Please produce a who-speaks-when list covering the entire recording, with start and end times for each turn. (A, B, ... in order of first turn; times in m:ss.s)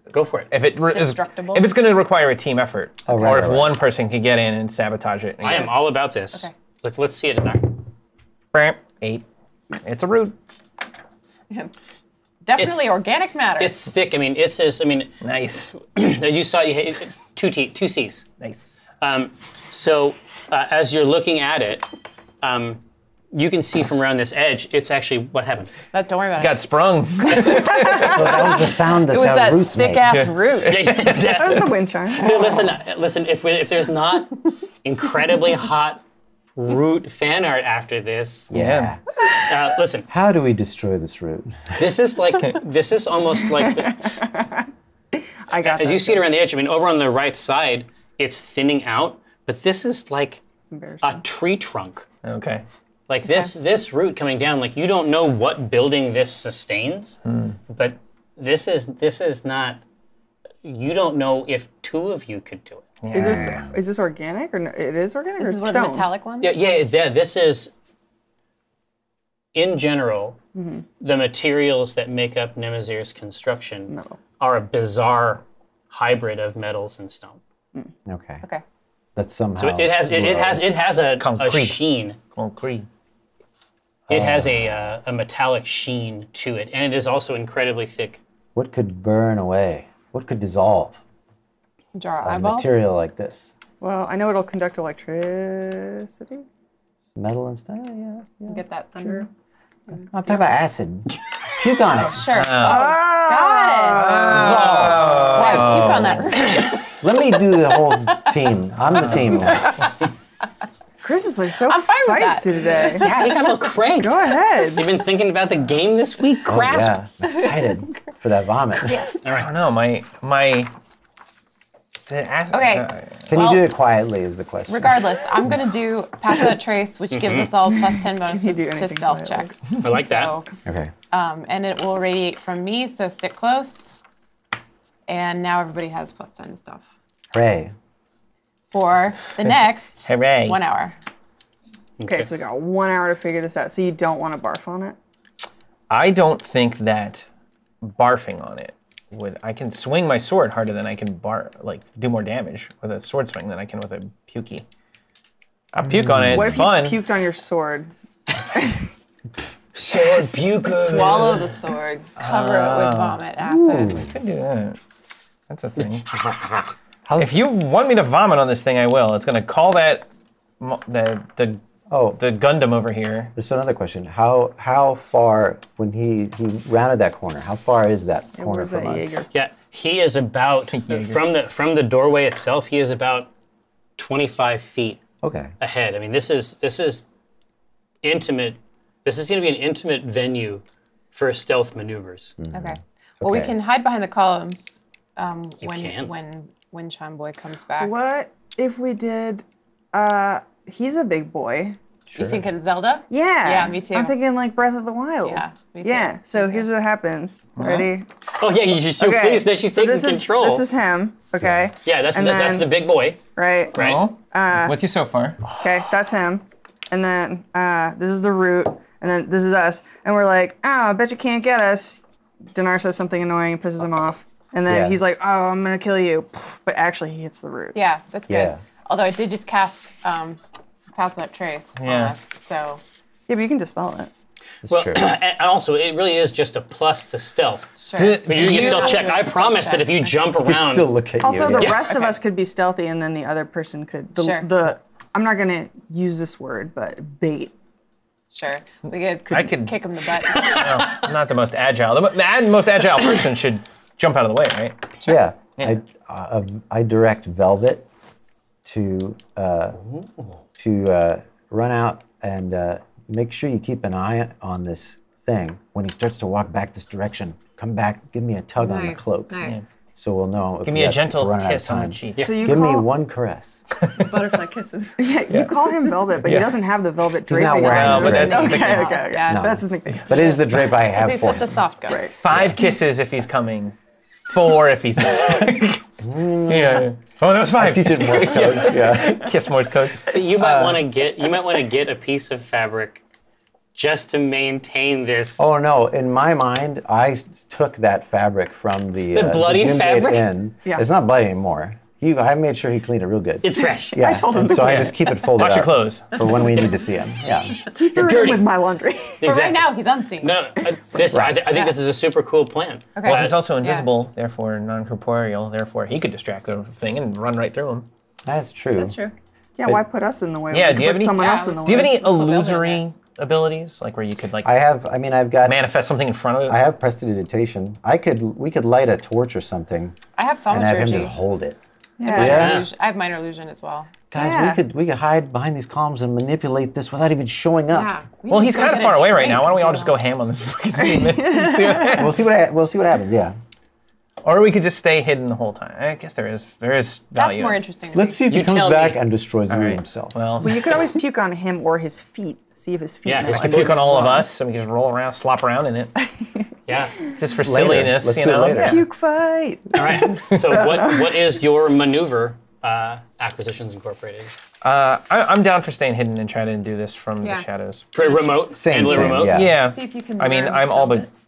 0:00.1-0:00.5 A
0:00.5-0:05.7 B
0:00.8-0:01.7 C
0:03.0-0:03.8 D
0:05.4-0:07.8 A
0:08.5-0:09.2 B
0:09.8-0:10.4 B
0:12.4-0:13.9 C
0:12.6-0:12.9 A
0:13.6-0:15.1 A
0:15.2-0:15.7 B
0:15.8-0:18.3 A
0:18.4-0:18.8 B
0:19.0-0:21.9 A
0:22.4-0:25.7 A
0:25.9-0:26.6 C
0:26.4-0:28.5 B
0:27.2-0:28.4 C
0:28.0-0:30.1 D
0:29.0-0:31.0 C
0:30.1-0:31.3 B
0:30.6-0:36.0 A
0:31.2-0:32.6 E
0:36.6-0:38.5 A
0:38.5-0:39.0 D
0:38.5-0:39.0 B
0:39.4-0:40.1 A
0:40.1-0:41.9 D
0:41.8-0:44.0 A
0:43.8-0:46.2 E
0:45.6-0:50.4 A
0:50.7-0:51.2 E
0:51.0-0:52.0 A
0:52.2-0:52.6 B
0:53.1-0:59.8 A
0:57.3-0:57.6 B
1:00.6-1:02.9 A
1:03.0-1:03.6 B
1:03.1-1:06.1 E
1:03.2-1:03.7 D
1:05.4-1:06.6 C
1:06.4-1:07.7 A
1:09.5-1:10.4 A
1:10.6-1:10.8 E
1:11.0-1:17.4 A
1:13.9-1:14.2 E
1:18.0-1:18.4 D
1:19.2-1:20.6 D
1:19.6-1:22.2 A
1:21.2-1:22.9 B
1:24.1-1:24.8 D
1:24.1-1:28.2 A
1:28.6-1:31.0 D
1:32.0-1:32.8 C
1:32.2-1:33.5 D
1:33.8-1:36.4 E
1:37.1-1:38.6 D
1:38.5-1:39.3 C
1:39.9-1:40.5 C
1:40.1-1:42.3 D
1:42.0-1:44.3 C
1:42.3-1:42.9 B
1:42.6-1:45.6 E
1:43.9-1:46.3 B
1:44.3-1:46.2 D
1:45.2-1:46.9 C
1:46.9-1:49.9 D
1:49.0-1:49.5 B
1:51.0-1:53.1 E
1:51.6-1:53.1 C
1:52.9-1:57.0 A
1:54.0-1:54.9 E
1:56.5-1:59.0 D
1:58.9-1:59.2 C
1:59.2-1:59.5 A
1:59.3-2:00.7 B
2:02.1-2:03.3 B
2:02.5-2:03.6 C
2:03.3-2:05.0 D
2:04.7-2:10.5 C
2:07.1-2:07.5 A
2:07.9-2:09.5 E
2:09.8-2:10.4 A
2:10.7-2:10.9 D
2:11.1-2:13.9 C
2:15.1-2:16.9 C
2:17.3-2:17.7 D
2:18.7-2:21.0 C
2:20.0-2:20.6 B
2:22.0-2:22.3 A
2:22.1-2:25.0 E
2:25.9-2:27.3 B
2:27.8-2:34.6 B
2:35.7-2:37.0 B
2:35.8-2:36.6 D
2:36.3-2:37.9 E
2:38.4-2:38.9 E
2:39.7-2:41.6 A
2:40.0-2:42.1 E
2:42.1-2:44.0 C
2:42.2-2:43.2 B
2:43.4-2:44.1 D
2:43.8-2:44.8 B
2:45.5-2:46.1 B
2:46.2-2:46.6 A
2:47.0-2:47.4 D
2:47.2-2:50.0 B
2:50.6-2:51.6 B
2:51.9-2:52.2 D
2:52.1-2:53.3 B
2:53.3-2:59.2 D
2:58.4-2:59.3 E
2:59.3-3:03.3 A
3:00.7-3:01.2 B
3:04.0-3:05.0 A
3:05.2-3:05.5 D
3:05.6-3:07.0 A
3:08.0-3:12.3 A
3:12.4-3:13.6 D
3:12.5-3:17.9 C
3:15.6-3:16.1 A
3:17.8-3:21.8 E
3:22.1-3:22.4 D
3:22.1-3:24.2 C
3:23.1-3:28.1 E
3:25.2-3:26.7 C
3:27.6-3:27.9 B
3:28.4-3:30.7 A
3:29.0-3:32.7 E
3:31.4-3:31.7 D
3:31.8-3:33.2 A
3:33.3-3:34.8 E
3:33.7-3:34.0 A
3:33.7-3:35.4 B
3:35.6-3:42.0 E
3:42.5-3:47.8 E
3:44.7-3:45.0 D
3:47.7-3:50.4 C
3:48.3-3:48.6 D
3:50.9-3:52.8 C
3:51.8-3:52.2 B
3:53.3-3:54.1 E
3:54.6-3:55.0 D
3:54.7-4:00.9 A
3:57.8-4:00.2 C
3:58.0-3:59.1 B
4:00.4-4:01.8 D
4:01.2-4:07.5 E
4:01.5-4:01.8 A
4:01.9-4:02.2 C
4:04.2-4:04.5 C
4:08.3-4:10.9 C
4:09.3-4:15.0 B
4:10.3-4:11.0 A
4:15.0-4:17.8 D
4:18.6-4:19.8 D
4:20.6-4:29.3 D
4:28.6-4:29.6 C
4:30.0-4:33.6 D
4:30.6-4:32.4 B
4:32.2-4:32.5 A
4:32.2-4:32.9 E
4:33.8-4:34.4 B
4:33.9-4:35.2 C
4:35.0-4:40.5 E
4:35.3-4:36.6 B
4:37.3-4:38.6 D
4:37.6-4:39.1 B
4:37.8-4:39.5 C
4:39.3-4:41.6 D
4:40.9-4:42.1 C
4:41.9-4:42.1 E
4:42.1-4:43.7 B
4:42.3-4:42.6 D
4:44.3-4:45.8 B
4:46.0-4:46.9 D
4:46.4-4:50.2 B
4:47.6-4:49.3 D
4:50.0-4:53.0 A
4:50.4-4:50.9 D
4:53.7-4:55.4 A
4:55.4-5:07.6 D
4:59.1-5:00.3 A
5:03.4-5:04.9 A
5:03.9-5:05.2 E
5:05.4-5:06.1 B
5:07.6-5:09.2 E
5:07.7-5:08.5 A
5:09.2-5:13.4 A
5:09.2-5:10.4 C
5:11.1-5:11.4 D
5:11.5-5:11.7 C
5:13.0-5:13.9 C
5:13.0-5:17.9 B
5:18.3-5:19.0 D
5:18.7-5:19.1 C
5:19.6-5:22.1 E
5:20.5-5:24.5 B
5:21.2-5:22.8 C
5:24.4-5:25.6 D
5:25.4-5:26.6 B
5:26.5-5:30.0 D
5:30.2-5:31.1 C
5:30.5-5:31.6 D
5:32.0-5:32.4 E
5:32.0-5:34.1 C
5:32.1-5:32.6 D
5:32.1-5:32.7 A
5:34.1-5:34.6 E
5:34.1-5:37.9 D
5:37.7-5:40.0 C
5:38.3-5:42.2 B
5:40.8-5:42.1 E
5:41.9-5:43.3 D
5:44.2-5:47.6 B
5:47.1-5:48.2 C
5:47.9-5:50.2 D
5:48.3-5:49.0 A
5:49.5-5:50.7 B
5:50.4-5:54.3 E
5:53.0-5:53.9 A
5:53.2-5:55.9 B
5:56.7-5:57.0 A
5:57.2-5:58.8 B
5:57.4-5:58.8 D
5:58.6-6:01.0 E
5:59.7-6:04.3 A
6:04.6-6:07.9 B
6:07.2-6:07.4 C
6:07.9-6:09.4 A
6:08.5-6:09.6 D
6:08.9-6:11.1 B
6:09.6-6:11.1 C